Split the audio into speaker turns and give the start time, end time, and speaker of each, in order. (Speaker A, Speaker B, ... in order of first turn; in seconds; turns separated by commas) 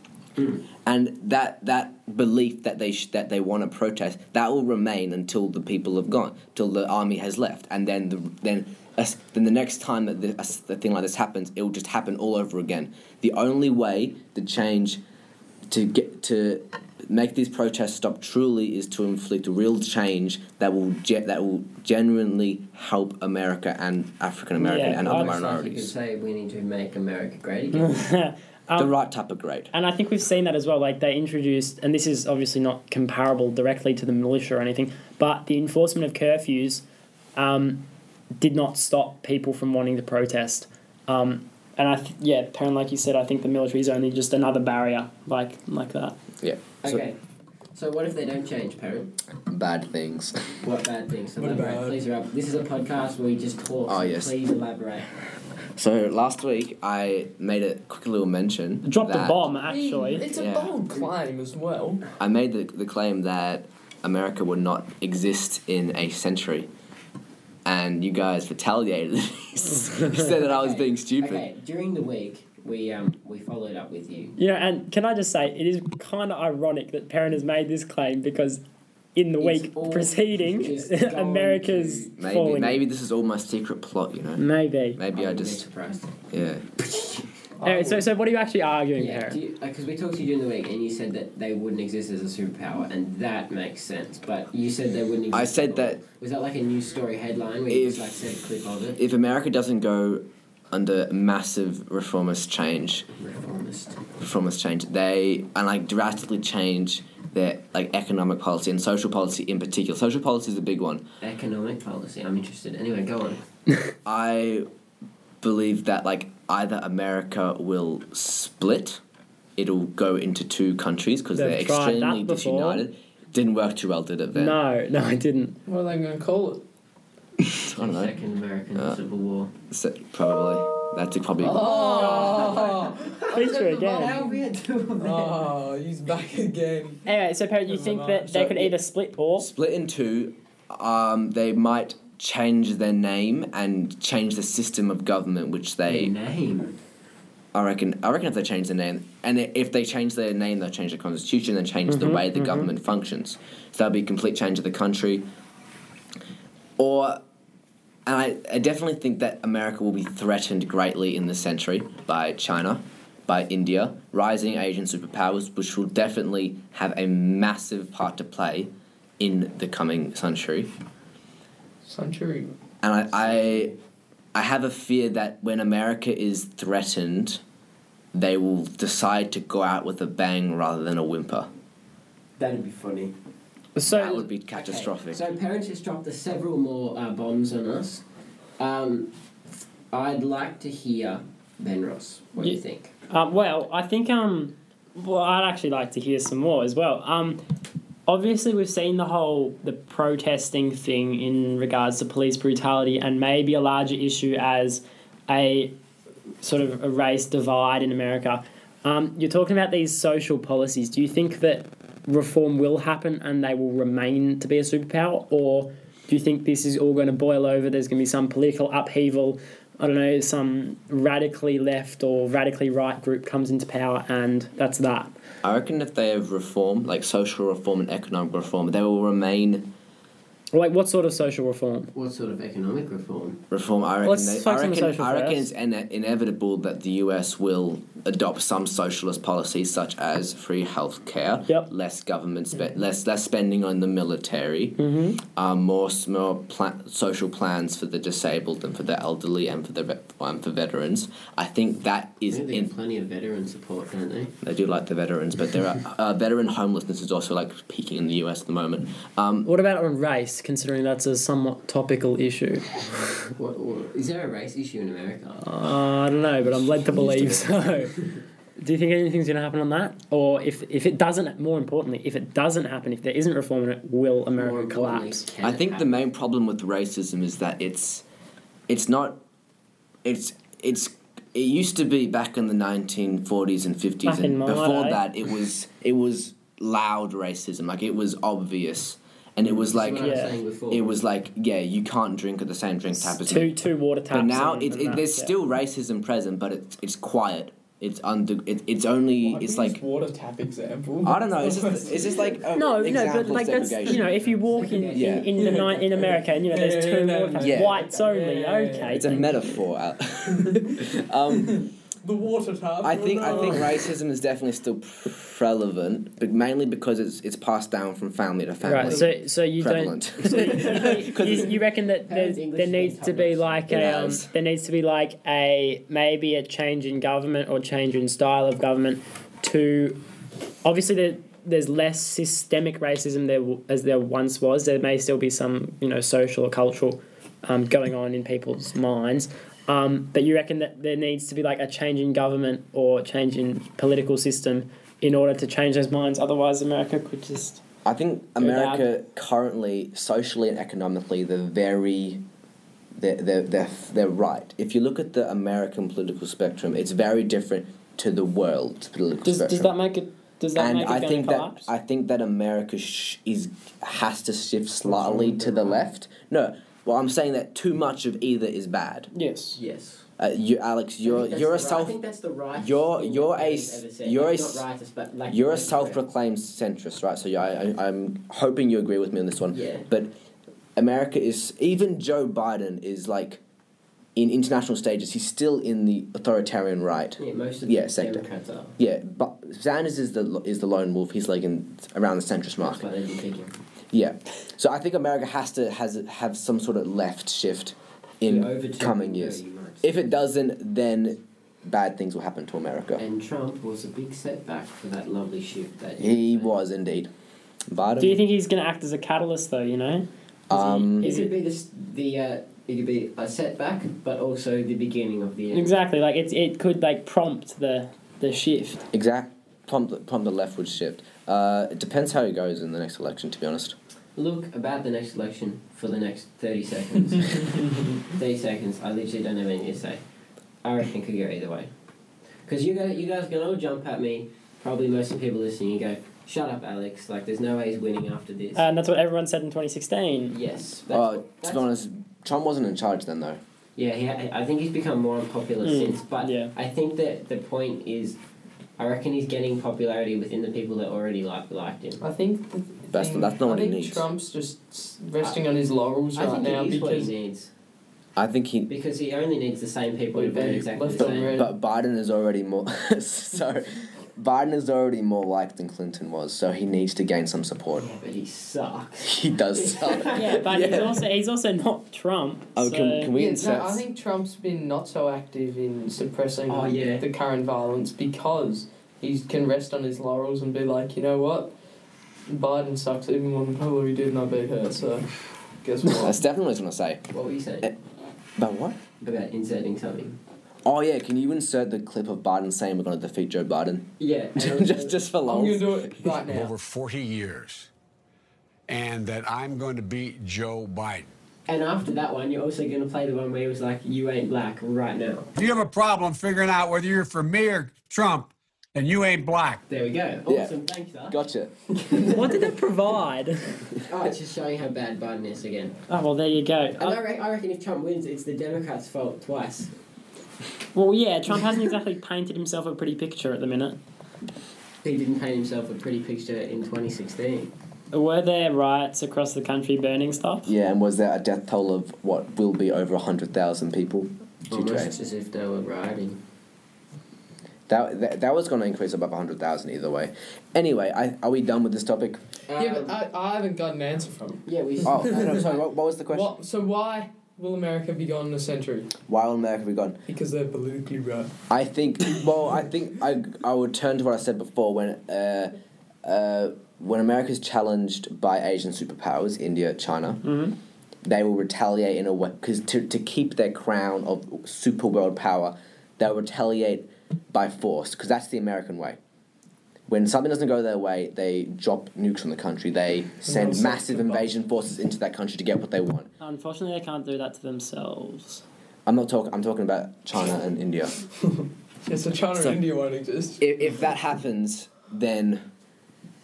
Speaker A: 0.8-15.0, Speaker A: 15.7-25.9, Speaker B: 24.6-25.3, Speaker C: 25.0-28.0, Speaker B: 27.7-28.9, Speaker A: 28.8-29.7, Speaker B: 29.7-36.8, Speaker B: 37.4-37.8, Speaker B: 38.4-46.1, Speaker A: 46.4-47.0, Speaker C: 46.8-47.2, Speaker C: 47.7-49.1, Speaker A: 49.5-50.5, Speaker C: 50.6-55.1, Speaker D: 51.4-52.0, Speaker A: 53.9-54.3, Speaker A: 55.8-59.5, Speaker B: 58.8-60.3, Speaker D: 59.6-62.1, Speaker A: 60.3-60.8, Speaker A: 62.2-66.7, Speaker A: 67.6-71.4, Speaker C: 70.3-74.4, Speaker B: 74.4-78.6, Speaker B: 79.2-82.8, Speaker C: 79.4-82.1, Speaker A: 82.2-85.7, Speaker B: 84.4-85.0, Speaker C: 85.1-86.1, Speaker A: 86.3-86.7, Speaker C: 86.9-87.2, Speaker D: 87.6-88.0, Speaker B: 87.6-89.4, Speaker C: 89.0-99.0, Speaker A: 95.3-96.0, Speaker A: 97.7-98.1, Speaker A: 99.0-103.1, Speaker C: 103.1-104.0, Speaker A: 104.2-111.0, Speaker C: 111.2-113.5, Speaker A: 114.0-114.7, Speaker A: 115.4-119.0, Speaker A: 119.6-124.6, Speaker B: 121.3-122.8, Speaker B: 124.3-125.6, Speaker D: 125.7-126.6, Speaker A: 127.4-128.1, Speaker C: 127.7-129.5, Speaker A: 129.7-131.8, Speaker D: 131.4-134.4, Speaker C: 131.4-135.5, Speaker B: 132.0-132.5, Speaker B: 133.3-134.2, Speaker D: 135.0-137.1, Speaker B: 137.1-139.5, Speaker D: 137.7-138.7, Speaker A: 139.4-146.1, Speaker C: 145.9-146.8, Speaker A: 147.5-155.2, Speaker B: 151.9-152.7, Speaker A: 156.8-157.2, Speaker A: 158.1-170.7, Speaker D: 171.8-172.5, Speaker A: 172.8-173.7, Speaker C: 173.3-173.7, Speaker A: 174.3-177.4, Speaker A: 178.1-181.5, Speaker C: 182.4-183.1, Speaker B: 183.8-184.2, Speaker A: 183.9-185.2, Speaker C: 184.5-188.0, Speaker C: 188.6-189.1, Speaker C: 189.9-192.9, Speaker B: 193.1-197.4, Speaker B: 198.1-205.7, Speaker B: 206.4-225.1, Speaker A: 225.4-229.7, Speaker B: 230.5-231.9, Speaker C: 231.9-233.4, Speaker A: 233.5-252.7, Speaker B: 234.0-235.5, Speaker B: 244.8-245.2, Speaker C: 252.3-254.3, Speaker A: 254.4-259.5, Speaker B: 259.4-263.1, Speaker C: 263.3-265.6, Speaker B: 265.4-267.9, Speaker C: 266.7-267.3, Speaker A: 266.9-267.6, Speaker B: 268.6-275.2, Speaker C: 274.3-276.0, Speaker A: 275.4-278.0, Speaker A: 278.7-279.2, Speaker A: 280.0-293.6, Speaker B: 284.1-285.0, Speaker C: 289.5-290.9, Speaker B: 290.0-290.3, Speaker B: 293.0-295.3, Speaker A: 294.1-299.8, Speaker D: 299.2-302.4, Speaker A: 301.0-304.1, Speaker B: 302.5-309.3, Speaker C: 304.5-305.3, Speaker A: 304.9-305.3, Speaker D: 305.4-309.3, Speaker A: 307.4-307.8, Speaker A: 308.9-311.7, Speaker D: 310.3-313.9, Speaker A: 312.8-321.6, Speaker B: 313.3-313.5, Speaker B: 318.6-330.0, Speaker C: 320.5-321.0, Speaker C: 322.1-323.8, Speaker A: 323.7-324.3, Speaker B: 330.6-347.6, Speaker A: 347.8-352.2, Speaker B: 348.4-348.9, Speaker A: 353.0-359.7, Speaker B: 359.2-361.7, Speaker A: 360.5-369.1, Speaker C: 364.9-365.8, Speaker B: 369.1-369.6, Speaker C: 369.6-370.1, Speaker A: 370.2-371.9, Speaker C: 371.0-376.0, Speaker A: 372.5-374.6, Speaker A: 375.3-380.1, Speaker C: 379.5-379.9, Speaker A: 380.8-383.4, Speaker A: 384.1-388.2, Speaker C: 387.2-388.8, Speaker A: 388.8-392.9, Speaker C: 392.6-393.6, Speaker A: 393.9-403.0, Speaker C: 398.2-399.9, Speaker C: 403.0-406.5, Speaker A: 406.0-407.1, Speaker A: 407.7-408.2, Speaker B: 408.0-411.3, Speaker A: 410.5-411.1, Speaker C: 410.9-415.7, Speaker B: 415.5-418.8, Speaker A: 418.9-423.7, Speaker C: 424.1-430.0, Speaker C: 430.6-431.7, Speaker C: 432.4-438.6, Speaker B: 438.6-440.3, Speaker C: 440.3-441.6, Speaker A: 440.9-443.4, Speaker C: 443.8-448.2, Speaker B: 445.6-446.5, Speaker C: 448.8-452.0, Speaker D: 452.0-457.1, Speaker A: 452.9-454.1, Speaker C: 456.1-457.5, Speaker A: 458.1-458.7, Speaker C: 458.7-461.4, Speaker D: 460.1-461.5, Speaker A: 461.0-467.9, Speaker C: 467.8-470.8, Speaker A: 469.0-471.0, Speaker B: 470.1-473.1, Speaker A: 472.6-473.8, Speaker D: 473.1-481.5, Speaker C: 476.5-477.1, Speaker D: 482.3-486.2, Speaker A: 485.9-487.1, Speaker C: 487.1-487.7, Speaker A: 488.4-488.8, Speaker C: 489.0-490.2, Speaker A: 490.6-496.0, Speaker C: 494.0-495.0, Speaker D: 495.2-496.5, Speaker E: 496.2-497.7, Speaker E: 498.7-501.1, Speaker C: 501.5-505.3, Speaker E: 505.4-509.6, Speaker C: 509.7-511.2, Speaker A: 510.3-511.5, Speaker C: 511.7-512.5, Speaker B: 512.1-513.6, Speaker C: 513.8-515.8, Speaker B: 515.9-517.0, Speaker C: 516.8-519.7, Speaker B: 520.7-523.8, Speaker C: 524.8-527.5, Speaker B: 527.9-530.5, Speaker A: 530.5-534.9, Speaker C: 534.5-536.2, Speaker A: 537.7-542.2, Speaker C: 542.5-543.0, Speaker D: 542.6-544.4, Speaker C: 544.4-545.6, Speaker A: 544.8-546.3, Speaker D: 545.0-545.4, Speaker D: 546.1-548.9, Speaker A: 549.0-550.0, Speaker D: 550.1-551.3, Speaker A: 551.5-560.2, Speaker B: 560.2-560.5, Speaker A: 561.0-569.0, Speaker A: 569.9-576.1, Speaker D: 573.2-574.3, Speaker B: 576.2-578.4, Speaker A: 578.9-580.9, Speaker D: 581.2-583.5, Speaker B: 582.3-582.6, Speaker A: 583.4-585.4